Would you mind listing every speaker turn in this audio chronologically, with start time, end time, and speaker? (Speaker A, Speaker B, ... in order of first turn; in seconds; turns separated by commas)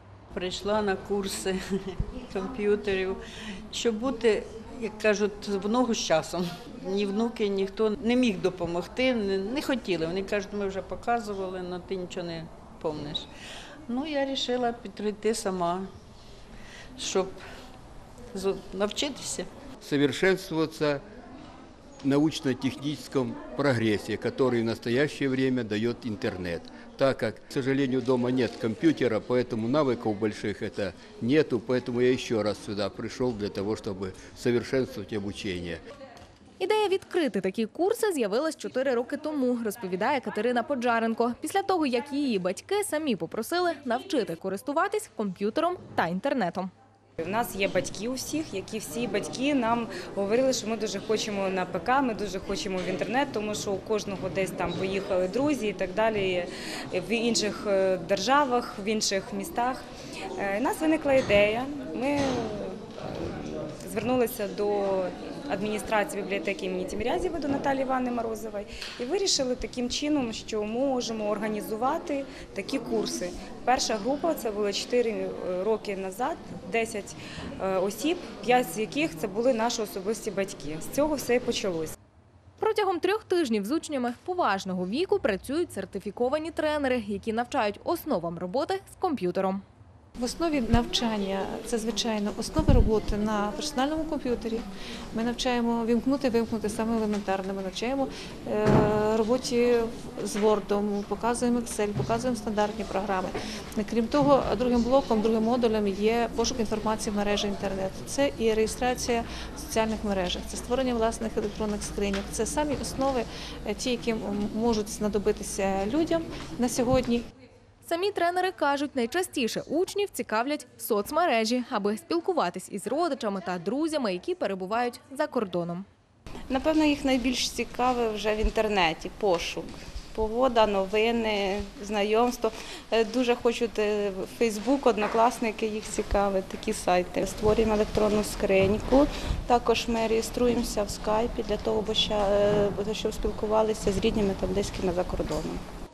Speaker A: 0.3-13.3, Speaker A: 13.9-15.9, Speaker A: 17.0-17.4, Speaker A: 18.3-19.5, Speaker B: 19.8-21.0, Speaker B: 22.0-35.8, Speaker C: 36.6-46.7, Speaker D: 47.2-59.8, Speaker D: 60.4-81.9, Speaker C: 82.6-89.6, Speaker E: 90.2-117.3, Speaker C: 117.8-125.9, Speaker F: 126.5-145.6